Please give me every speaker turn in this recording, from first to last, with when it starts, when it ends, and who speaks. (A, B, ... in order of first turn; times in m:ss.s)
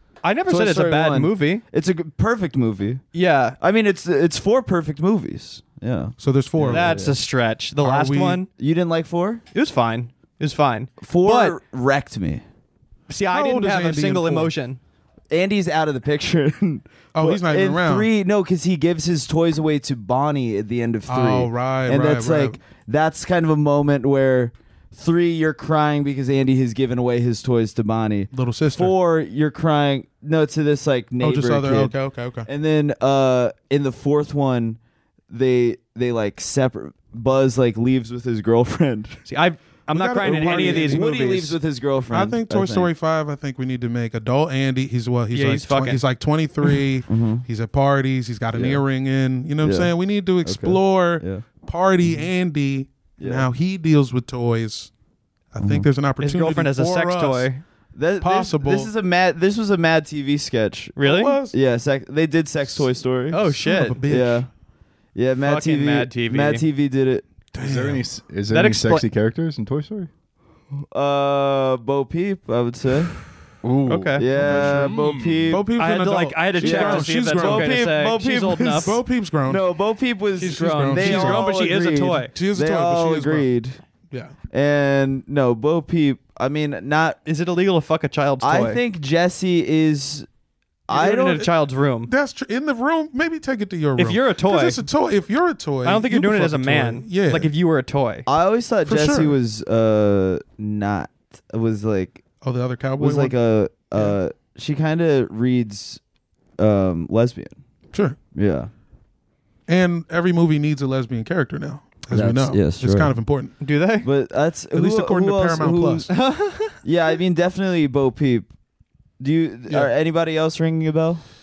0:00.2-0:01.6 A
0:00.5-0:03.0 B
0:03.1-0:03.6 A
0:03.6-0:07.2 B
0:06.2-0:07.0 C
0:06.7-0:08.5 A
0:07.8-0:08.4 C
0:08.6-0:09.4 B
0:09.5-0:11.6 A
0:11.0-0:12.4 B
0:13.1-0:14.8 A
0:13.3-0:14.5 C
0:15.3-0:31.9 B
0:17.1-0:18.1 C
0:21.1-0:22.6 C
0:28.3-0:29.0 C
0:31.2-0:32.5 C
0:32.5-0:34.8 B
0:35.3-0:39.2 B
0:39.2-0:41.6 A
0:39.9-0:41.1 C
0:40.2-0:42.9 B
0:42.1-0:54.9 C
0:45.3-0:46.0 A
0:47.1-0:47.4 B
0:48.5-0:48.8 B
0:49.6-0:49.9 B
0:50.4-0:51.4 B
0:53.2-0:53.5 B
0:55.5-0:57.5 C
0:55.6-0:55.9 B
0:56.2-0:57.6 A
0:57.9-1:01.0 B
0:58.2-0:58.9 C
1:01.0-1:01.4 A
1:01.0-1:01.5 C
1:01.5-1:03.4 B
1:03.3-1:04.0 A
1:03.6-1:04.4 C
1:04.0-1:04.5 B
1:05.1-1:07.2 B
1:05.4-1:06.6 A
1:07.5-1:08.0 C
1:07.6-1:10.1 D
1:08.5-1:09.1 A
1:10.9-1:13.2 B
1:13.6-1:15.6 D
1:13.9-1:14.3 A
1:14.2-1:15.6 B
1:14.4-1:14.8 C
1:15.5-1:17.8 C
1:15.8-1:19.0 A
1:16.6-1:23.8 B
1:18.8-1:19.6 C
1:20.4-1:22.3 A
1:20.4-1:21.4 C
1:22.3-1:23.5 C
1:24.5-1:27.2 B
1:27.2-1:28.8 A
1:28.4-1:30.3 B
1:30.9-1:31.4 B
1:30.9-1:32.1 A
1:32.1-1:37.5 C
1:34.0-1:34.8 A
1:35.8-1:38.2 A
1:38.3-1:42.2 B
1:38.8-1:39.4 C
1:42.4-1:43.4 C
1:43.0-1:46.0 B
1:46.6-1:47.6 B
1:48.3-1:48.7 B
1:49.7-1:53.5 C
1:52.1-1:53.1 B
1:53.6-1:54.1 A
1:54.0-1:56.1 B
1:54.7-1:56.1 C
1:56.1-1:56.8 A
1:56.8-1:58.5 B
1:59.2-2:01.3 B